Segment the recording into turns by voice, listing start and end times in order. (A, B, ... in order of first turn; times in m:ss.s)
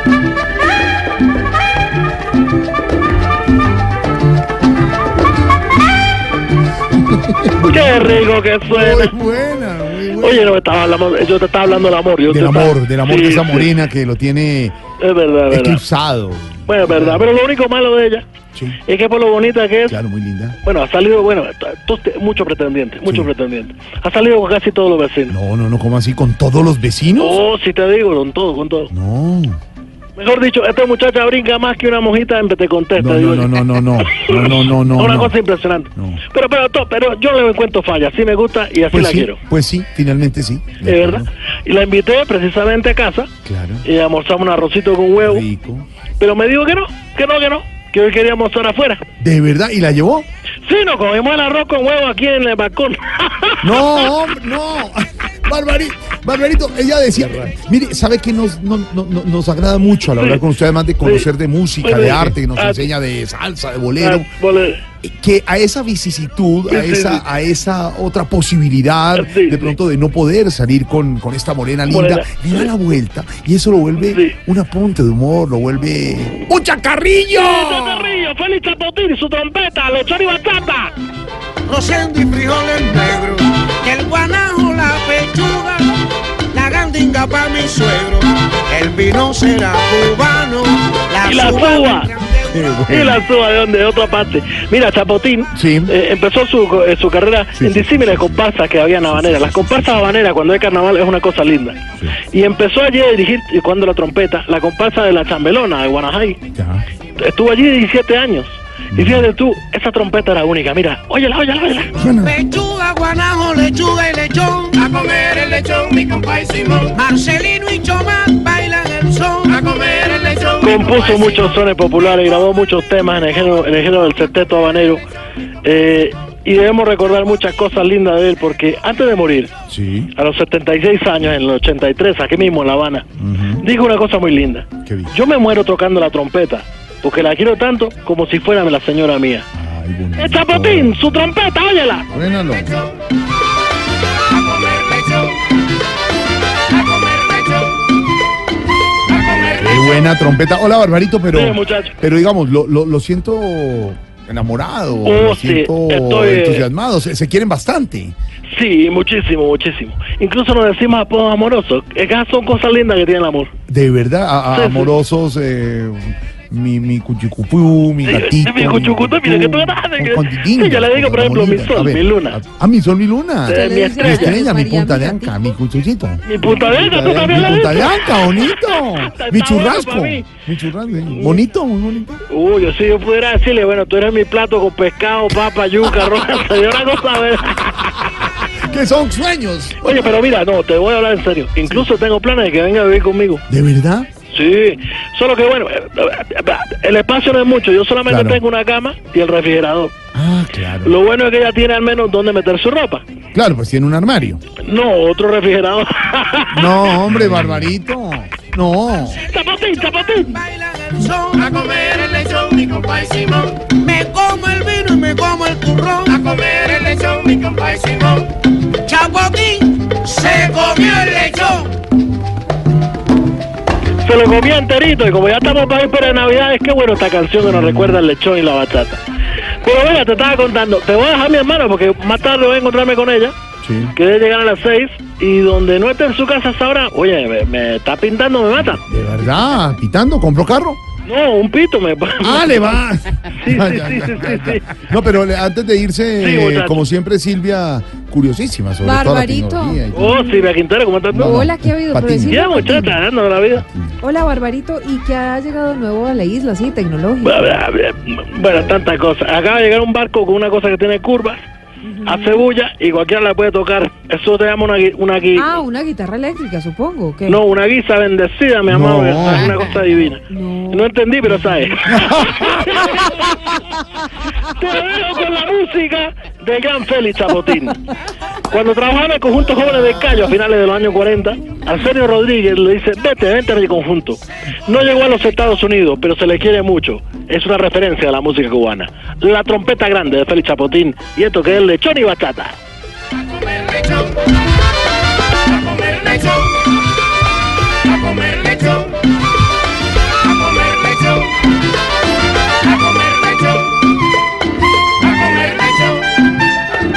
0:06.9-0:10.6 A
0:07.6-0:09.1 B
0:10.2-0:13.7 B
0:12.3-0:14.8 A
0:15.0-0:15.8 B
0:15.5-0:17.3 A
0:16.7-0:18.2 B
0:18.8-0:20.0 B
0:19.9-0:20.6 A
0:20.6-0:25.4 B
0:23.0-0:23.3 A
0:25.3-0:27.4 A
0:27.1-0:28.9 B
0:28.9-0:29.6 A
0:30.2-0:39.4 B
0:33.0-0:35.4 A
0:35.9-0:36.2 A
0:38.9-0:41.3 A
0:40.8-0:43.3 B
0:43.4-0:43.8 A
0:43.8-0:45.4 B
0:45.2-0:45.9 A
0:46.2-0:49.0 B
0:49.2-0:50.3 A
0:50.6-0:54.1 B
0:53.6-1:04.3 A
1:00.2-1:00.4 B
1:01.0-1:01.3 B
1:01.8-1:02.9 B
1:04.0-1:04.8 B
1:05.0-1:18.2 A
1:06.7-1:07.2 B
1:09.1-1:09.8 B
1:11.9-1:12.7 B
1:14.0-1:14.4 B
1:17.3-1:20.9 B
1:21.7-1:25.9 C
1:26.5-1:32.8 C
1:31.2-1:32.1 B
1:32.5-1:33.2 A
1:32.9-1:46.4 B
1:35.5-1:35.9 A
1:37.5-1:38.4 A
1:39.0-1:40.2 A
1:46.5-1:46.8 A
1:47.2-1:52.0 B
1:48.9-1:49.3 A
1:52.0-1:52.4 A
1:52.2-1:56.2 C
1:55.0-1:56.8 D
1:56.8-2:00.5 C
2:00.6-2:05.0 B
2:05.6-2:09.5 B
2:09.7-2:10.1 A
2:10.1-2:13.1 B
2:13.2-2:13.6 A
2:13.6-2:19.5 B
2:14.8-2:15.1 A
2:19.5-2:21.2 A
2:20.2-2:22.1 B
2:22.1-2:22.8 A
2:29.2-2:38.1 A
2:31.3-2:31.9 B
2:35.0-2:36.6 B
2:38.5-2:43.5 B
2:43.7-3:02.2 A
2:44.5-2:44.9 B
2:48.0-2:52.4 B
2:53.4-2:54.4 B
2:53.5-2:55.4 E
2:56.2-3:00.3 B
3:01.0-3:01.4 B
3:02.3-3:08.1 B
3:08.4-3:10.2 A
3:09.8-3:13.4 B
3:13.5-3:14.1 A
3:14.3-3:19.9 B
3:18.1-3:18.4 A
3:20.1-3:21.0 A
3:20.8-3:23.0 B
3:23.3-3:24.4 A
3:24.6-3:27.4 B
3:26.5-3:29.2 A
3:29.0-3:37.6 C
3:29.3-3:30.4 B
3:32.6-3:33.4 D
3:36.6-3:38.3 D
3:38.8-3:41.7 C
3:44.0-3:49.0 B
3:47.4-3:48.0 A
3:49.6-3:53.3 B
3:53.6-3:53.9 A
3:53.9-3:58.8 B
3:58.7-4:00.8 A
4:01.0-4:04.9 B
4:02.2-4:10.2 A
4:06.2-4:06.8 B
4:08.8-4:10.4 E
4:09.9-4:11.4 B
4:11.1-4:14.0 A
4:11.1-4:12.6 E
4:12.3-4:13.6 B
4:14.0-4:17.5 E
4:17.2-4:21.4 B
4:21.8-4:22.2 E
4:22.0-4:25.6 B
4:25.4-4:27.4 E
4:27.2-4:33.5 B
4:28.7-4:29.7 A
4:30.3-4:30.9 E
4:31.9-4:33.2 A
4:34.4-4:37.8 B
4:38.4-4:52.6 B
4:55.7-4:56.2 D
5:05.6-5:05.9 D